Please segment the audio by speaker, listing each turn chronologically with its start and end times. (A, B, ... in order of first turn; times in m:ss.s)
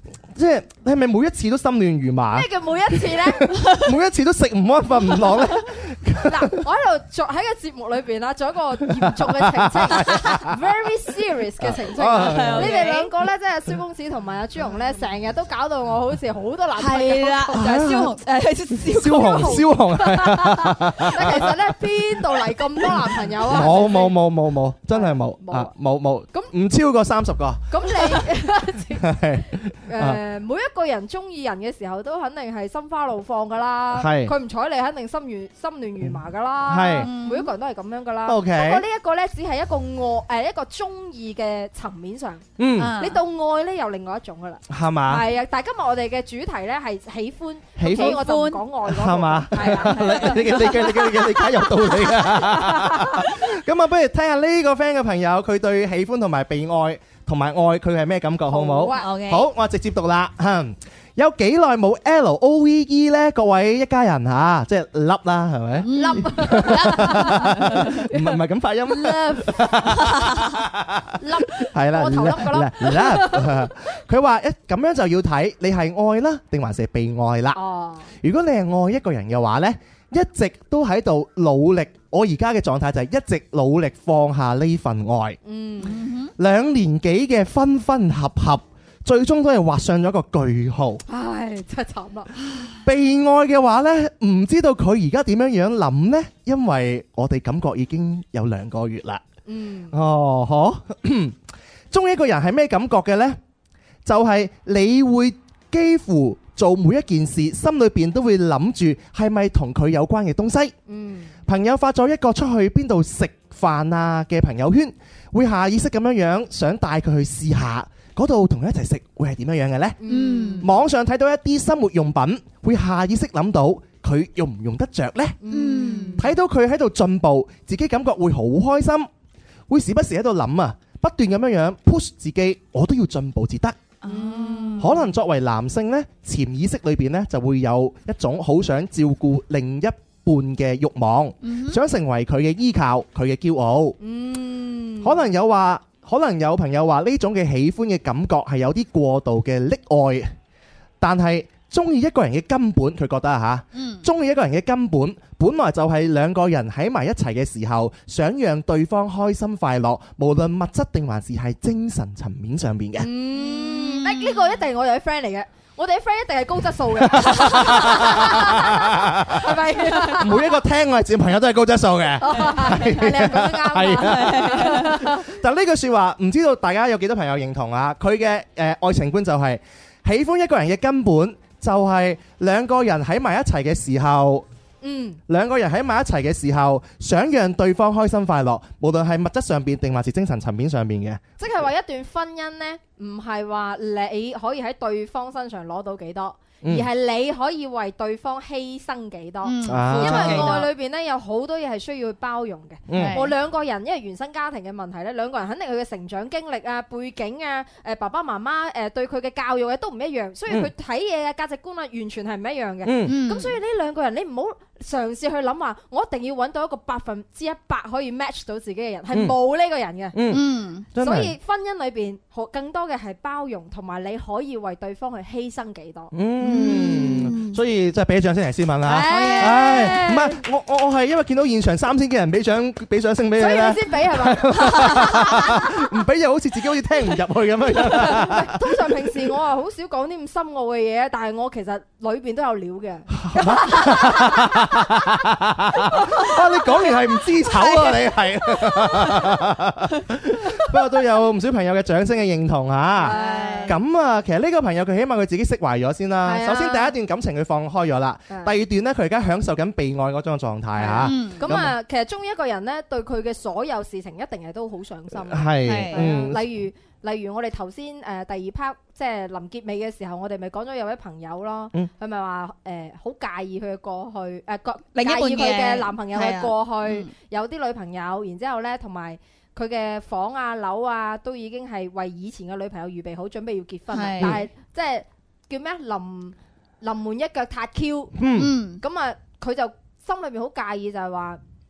0:00.3-0:06.6 A
0:02.3-0:03.6 B
0:06.2-0:17.9 B
0:08.9-0:10.6 A
0:11.6-0:12.7 A
0:12.2-0:13.1 C
0:16.8-0:19.6 C
0:17.5-0:18.1 A
0:18.9-0:21.6 A
0:19.0-0:24.2 B
0:23.4-0:28.2 A
0:24.9-0:25.7 B
0:27.7-0:29.1 B
0:29.0-0:30.2 A
0:29.8-0:42.5 B
0:33.9-0:34.3 A
0:36.7-0:37.1 A
0:37.0-0:37.5 C
0:38.3-0:38.8 A
0:42.6-0:43.0 A
0:42.8-0:43.2 C
0:43.0-0:50.9 B
0:44.7-0:45.2 A
0:47.8-0:48.2 A
0:47.8-0:48.6 C
0:48.9-1:17.6 A
0:49.6-0:51.7 C
0:52.2-0:53.2 B
0:58.5-0:59.1 B
0:58.9-0:59.5 C
1:05.8-1:08.0 C
1:05.9-1:07.5 B
1:08.9-1:09.7 B
1:11.2-1:13.7 B
1:17.5-1:18.1 B
1:18.2-1:25.4 A
1:25.4-1:26.0 B
1:25.8-1:26.3 C
1:26.4-1:31.0 A
1:31.1-1:32.3 B
1:32.8-1:39.2 A
1:39.4-1:40.0 B
1:39.9-1:41.4 A
1:41.9-1:43.4 A
1:44.0-1:50.7 A
1:50.9-1:51.3 B
1:51.5-2:00.0 A
2:00.0-2:00.7 B
2:00.1-2:00.7 C
2:00.6-2:05.4 A
2:05.4-2:06.3 B
2:05.5-2:06.3 C
2:06.2-2:09.1 A
2:09.7-2:13.8 A
2:14.0-2:14.9 C
2:14.0-2:15.0 B
2:14.8-2:24.0 A
2:21.4-2:21.8 C
2:24.0-2:25.2 B
2:25.0-2:30.3 A
2:31.0-2:43.1 A
2:33.7-2:34.0 C
2:43.0-2:50.6 B
2:43.3-2:44.6 C
2:47.1-2:49.6 A
2:50.2-3:04.4 A
2:52.2-2:55.3 B
2:53.9-2:54.9 C
3:04.8-3:05.2 B
3:05.3-3:11.2 A
3:11.4-3:40.2 B
3:19.4-3:20.7 C
3:19.6-3:20.6 A
3:22.9-3:23.2 A
3:22.9-3:23.3 C
3:32.8-3:33.2 A
3:33.1-3:33.6 C
3:40.1-3:41.3 A
3:40.3-3:40.9 C
3:41.0-3:46.1 B
3:46.1-3:58.6 A
3:46.4-3:47.6 C
3:48.8-3:50.4 B
3:49.1-3:49.8 C
3:53.4-3:55.7 B
3:57.8-4:04.9 B
4:03.2-4:21.7 A
4:05.9-4:08.1 B
4:13.0-4:13.8 B
4:13.0-4:13.7 C
4:16.2-4:16.9 B
4:18.3-4:18.5 B
4:20.8-4:48.2 B
4:21.0-4:21.4 C
4:25.2-4:26.4 A
4:25.6-4:26.1 C
4:35.0-4:37.1 C
4:43.9-4:44.4 C
4:48.2-4:48.6 A
4:48.4-4:48.8 C
4:48.8-4:51.4 B